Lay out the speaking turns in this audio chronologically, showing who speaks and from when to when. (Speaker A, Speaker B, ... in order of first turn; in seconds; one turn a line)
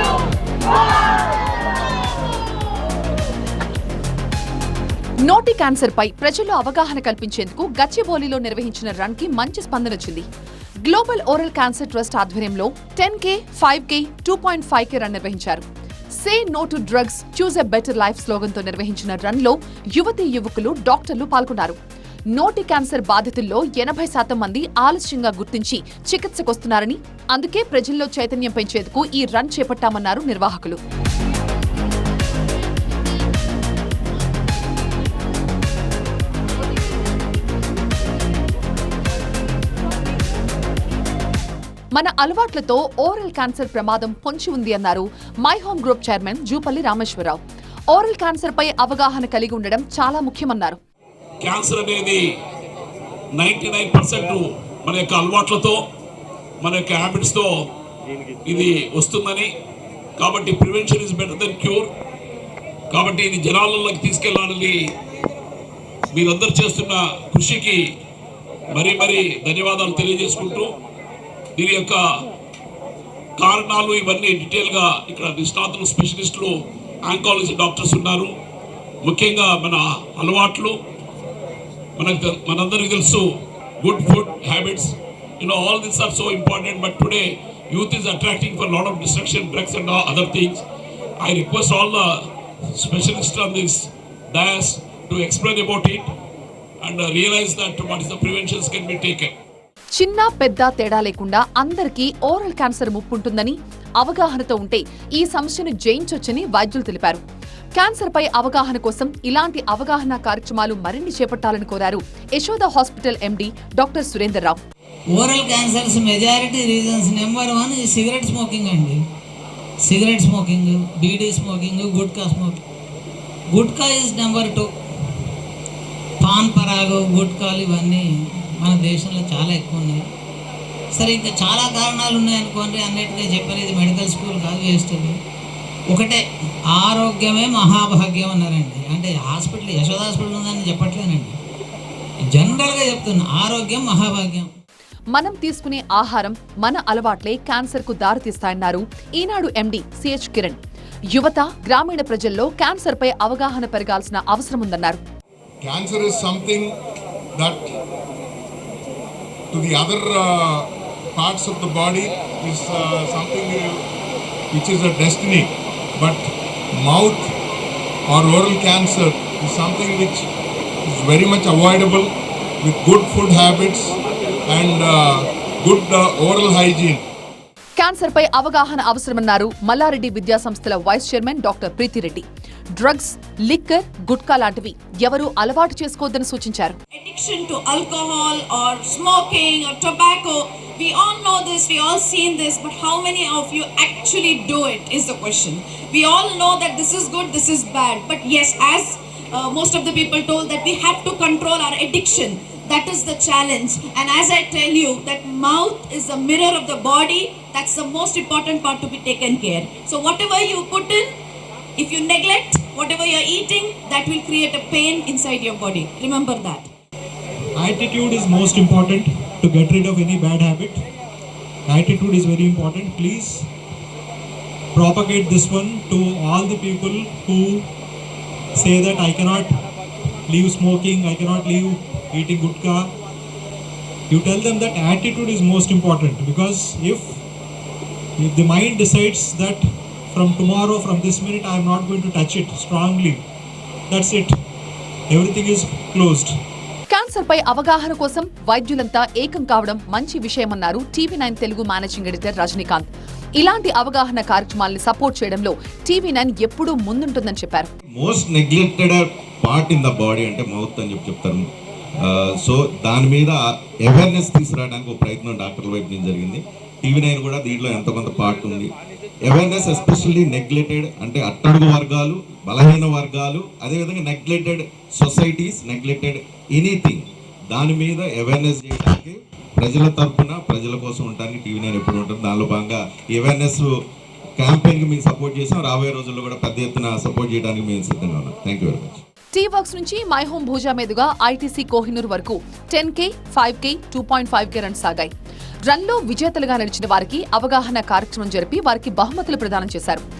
Speaker A: 5.2-10.2
Speaker A: 10.8-15.6
Speaker A: 16.1-21.8
Speaker A: 22.3-30.8
Speaker A: 41.9-50.8
Speaker B: 51.4-52.2
Speaker B: 53.3-55.8
Speaker B: 56.6-57.7
Speaker B: 58.4-59.5
Speaker B: 60.2-61.9
Speaker B: 62.9-64.9
Speaker B: 66.1-67.8
Speaker B: 68.7-70.7
Speaker B: 71.5-72.2
Speaker B: 73.4-78.3
Speaker B: 79.0-80.8
Speaker B: 82.0-83.3
Speaker B: 83.8-90.6
Speaker B: 91.2-92.1
Speaker B: 92.8-96.0
Speaker B: 96.8-99.3
Speaker A: 99.9-107.2
Speaker A: 107.7-114.6
Speaker C: 115.1-119.0
Speaker C: 119.8-122.6
Speaker C: 123.5-124.8
Speaker C: 126.2-130.1
Speaker C: 130.9-135.2
Speaker C: 135.9-141.4
Speaker C: 142.3-144.5
Speaker A: 145.1-150.6
Speaker A: 151.1-155.0
Speaker D: 155.6-156.7
Speaker D: 157.3-157.7
Speaker D: 159.5-163.8
Speaker D: 164.5-167.3
Speaker D: 168.1-170.2
Speaker D: 170.9-172.1
Speaker D: 172.6-173.9
Speaker D: 174.4-177.0
Speaker A: 177.8-186.8
Speaker E: 186.9-211.1
Speaker E: 211.8-216.7
Speaker F: 217.5-220.8
Speaker F: 221.7-223.5
Speaker F: 224.7-227.7
Speaker F: 228.5-229.5
Speaker F: 230.3-232.9
Speaker F: 234.1-237.2
Speaker F: 238.2-243.2
Speaker F: 243.9-244.3
Speaker F: 245.1-246.3
Speaker A: 246.9-257.7
Speaker G: 257.9-283.8
Speaker G: 284.4-289.0
Speaker A: 289.3-295.1
Speaker A: 295.6-300.0